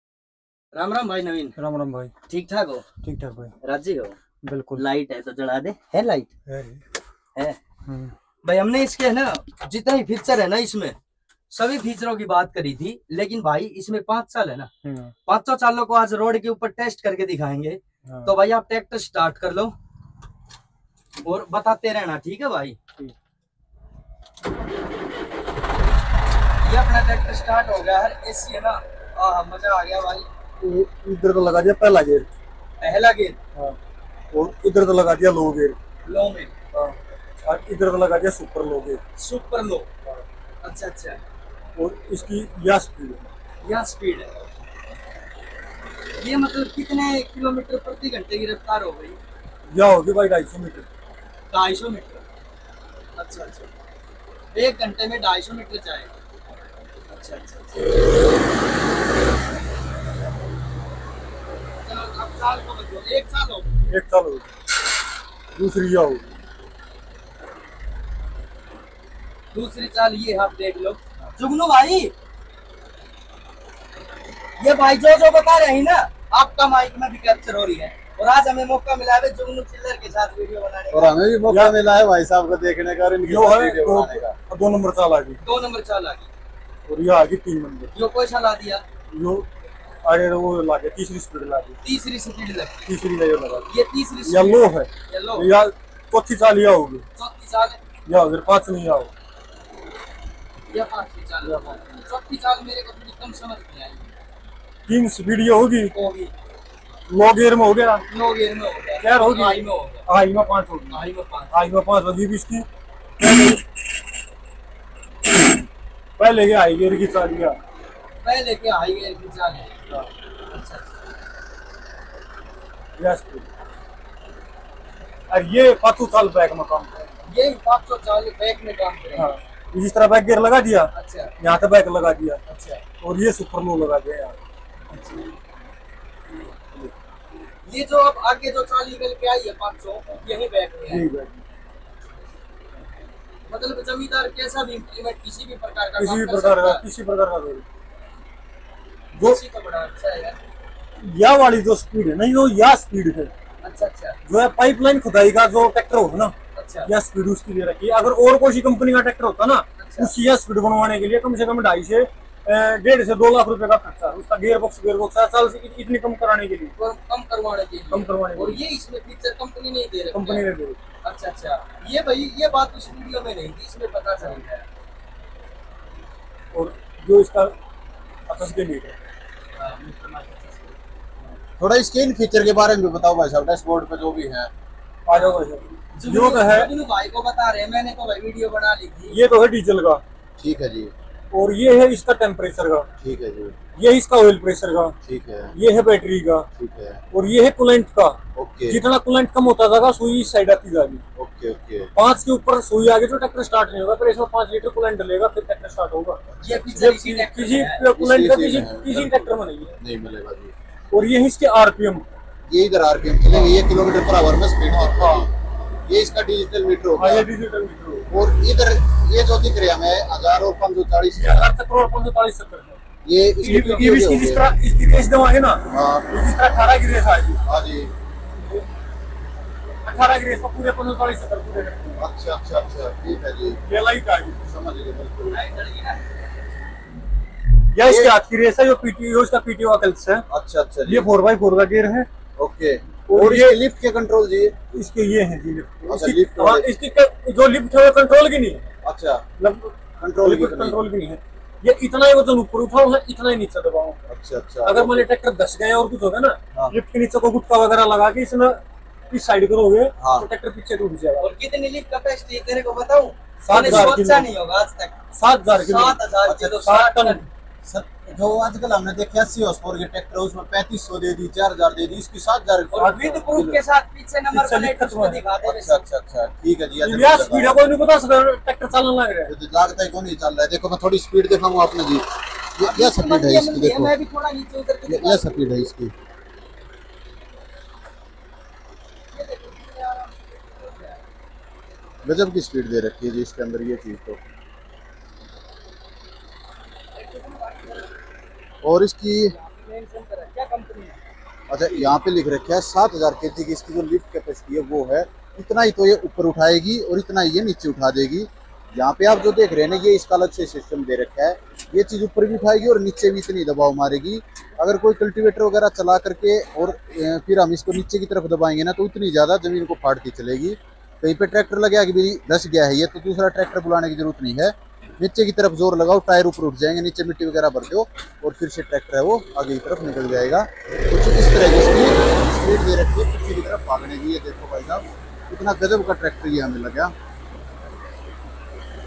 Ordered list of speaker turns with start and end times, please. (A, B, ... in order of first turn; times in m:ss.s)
0:00.7-0:01.6 A
0:01.6-0:02.1 B
0:02.3-0:02.9 A
0:03.0-0:03.6 B
0:03.6-0:04.2 A
0:04.4-0:04.8 B
0:04.8-0:06.3 A
0:06.5-0:06.8 B
0:07.9-0:08.1 B
0:08.4-0:11.0 A
0:11.5-0:14.7 A
0:14.8-0:15.1 B
0:15.3-0:19.8 A
0:18.1-0:18.3 B
0:21.2-0:22.8 A
0:26.6-0:30.3 A
0:30.6-0:32.3 B
0:32.8-0:33.4 A
0:34.3-0:35.8 B
0:36.0-0:36.5 A
0:36.7-0:39.0 B
0:39.2-0:39.9 A
0:40.6-0:41.2 A
0:41.8-0:43.3 B
0:43.6-0:44.3 A
0:46.2-0:49.2 A
0:49.7-0:50.9 B
0:51.5-0:52.2 A
0:53.2-0:53.7 A
0:54.5-0:56.1 A
0:57.1-0:57.9 A
1:01.8-1:03.7 A
1:03.9-1:04.5 B
1:05.6-1:06.3 B
1:09.5-1:12.1 A
1:14.6-1:21.2 A
1:20.9-1:24.4 C
1:21.5-1:21.8 B
1:23.2-1:25.4 B
1:25.4-1:26.3 A
1:26.9-1:27.9 B
1:27.9-1:28.8 A
1:29.1-1:29.5 B
1:30.0-1:31.8 B
1:31.8-1:32.9 A
1:32.9-1:33.7 B
1:33.7-1:35.5 A
1:34.2-1:37.1 B
1:37.2-1:37.8 A
1:38.1-1:39.1 B
1:40.7-1:44.1 A
1:41.4-1:41.8 B
1:44.9-1:45.9 B
1:45.9-1:46.3 A
1:47.1-1:48.0 B
1:48.1-1:50.1 A
1:49.0-1:51.0 B
1:50.9-1:51.6 A
1:51.5-1:52.7 B
1:53.2-1:53.6 B
1:56.2-1:57.6 B
1:58.2-1:59.7 A
2:00.5-2:00.8 A
2:03.0-2:03.5 B
2:05.3-2:07.1 B
2:07.3-2:09.4 A
2:09.2-2:12.4 B
2:10.9-2:11.3 A
2:12.5-2:12.8 A
2:13.0-2:14.4 B
2:14.9-2:15.3 A
2:17.7-2:21.1 A
2:20.9-2:21.4 B
2:23.5-2:26.8 A
2:26.0-2:27.6 B
2:29.2-2:30.4 A
2:31.0-2:33.3 B
2:33.6-2:34.2 A
2:34.3-2:46.8 B
2:36.5-2:36.9 A
2:39.8-2:40.1 A
2:46.8-2:50.5 A
2:47.9-2:48.6 B
2:50.1-2:50.8 B
2:51.0-2:54.7 A
2:56.5-2:57.5 B
2:58.3-2:59.0 B
2:59.6-3:00.8 A
3:01.6-3:04.5 C
3:05.1-3:06.7 B
3:05.1-3:05.4 A
3:05.9-3:09.2 A
3:09.1-3:10.0 B
3:10.4-3:10.9 C
3:11.3-3:12.9 B
3:13.0-3:13.6 C
3:13.8-3:15.0 B
3:15.0-3:15.5 C
3:15.5-3:16.5 B
3:16.6-3:17.0 C
3:17.1-3:21.0 B
3:18.4-3:18.8 C
3:21.2-3:21.9 C
3:22.0-3:26.2 B
3:26.3-3:26.9 C
3:26.4-3:27.9 A
3:26.8-3:29.7 B
3:28.0-3:30.5 C
3:30.9-3:32.1 B
3:32.5-3:37.3 C
3:37.0-3:38.1 B
3:38.1-3:41.4 C
3:41.2-3:42.8 B
3:43.0-3:44.5 C
3:43.4-3:47.4 B
3:45.7-3:46.1 C
3:47.4-3:47.9 C
3:49.8-3:52.0 B
3:52.0-3:53.6 C
3:53.7-3:54.4 B
3:54.4-3:55.4 C
3:55.3-3:56.0 A
3:57.7-4:00.2 B
3:57.8-3:58.1 C
4:00.3-4:01.1 C
4:00.9-4:02.1 B
4:02.4-4:04.6 C
4:03.1-4:03.6 B
4:04.7-4:08.7 B
4:05.9-4:06.7 C
4:08.8-4:09.2 C
4:09.4-4:14.0 B
4:10.0-4:10.8 C
4:14.1-4:15.1 C
4:14.6-4:21.3 B
4:20.0-4:20.3 C
4:21.2-4:25.0 A
4:23.4-4:24.3 B
4:23.5-4:23.9 C
4:25.1-4:27.3 B
4:25.5-4:27.2 A
4:26.3-4:26.6 C
4:27.6-4:33.5 C
4:32.7-4:35.8 A
4:32.8-4:33.6 B
4:34.3-4:35.2 B
4:35.4-4:37.6 C
4:36.8-4:39.3 B
4:39.3-4:43.9 C
4:42.6-4:45.6 A
4:44.9-4:45.9 C
4:49.1-4:51.0 A
4:52.0-4:54.2 C
4:56.9-4:57.9 A
4:58.6-4:59.4 C
4:59.3-5:01.0 A
5:01.5-5:36.9 C
5:01.7-5:02.0 A